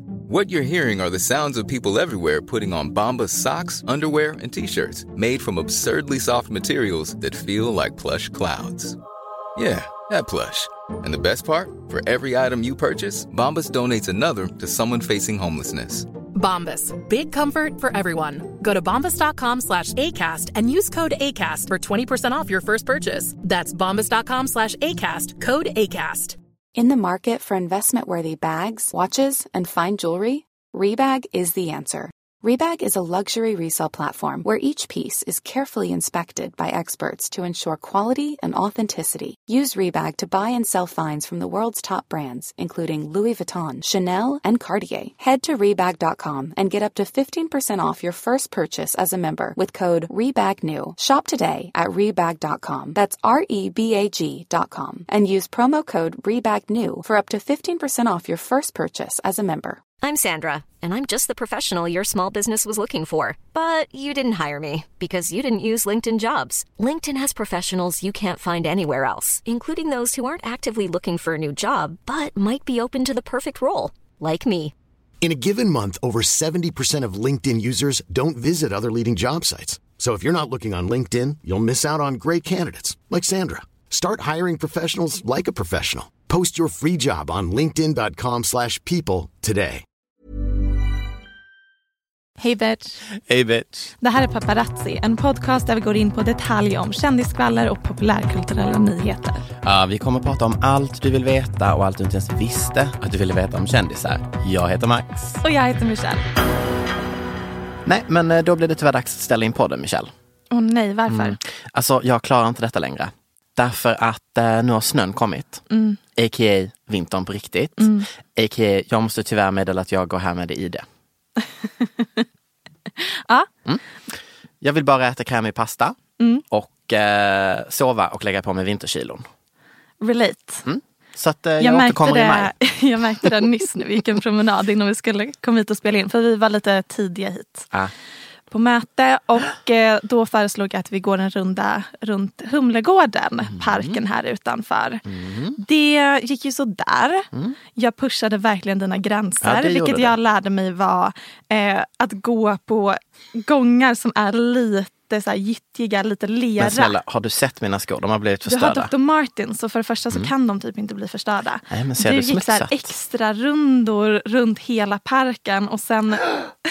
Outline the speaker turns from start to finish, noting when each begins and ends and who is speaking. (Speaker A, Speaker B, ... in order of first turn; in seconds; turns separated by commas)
Speaker A: 0.3-9.0, Speaker A: 9.6-16.1, Speaker B: 16.3-26.4, Speaker C: 26.8-59.8, Speaker D: 60.0-74.7, Speaker E: 75.2-89.8, Speaker F: 92.4-93.0, Speaker G: 93.3-93.9, Speaker F: 94.0-99.4, Speaker G: 99.6-105.4, Speaker F: 105.4-106.2, Speaker G: 107.9-110.1, Speaker F: 110.5-111.4, Speaker G: 111.1-115.6, Speaker F: 115.7-116.0, Speaker G: 116.2-120.8, Speaker F: 117.8-118.1, Speaker F: 121.8-122.2, Speaker F: 123.0-123.5, Speaker G: 124.6-126.0, Speaker F: 126.2-126.4, Speaker G: 126.5-129.3, Speaker F: 130.0-130.7, Speaker G: 130.7-132.6, Speaker F: 131.6-137.7, Speaker F: 138.5-145.0, Speaker G: 143.4-144.0, Speaker G: 145.1-145.6, Speaker F: 145.6-156.9, Speaker G: 149.4-150.2, Speaker G: 156.6-158.9, Speaker F: 158.5-166.4, Speaker G: 161.7-162.9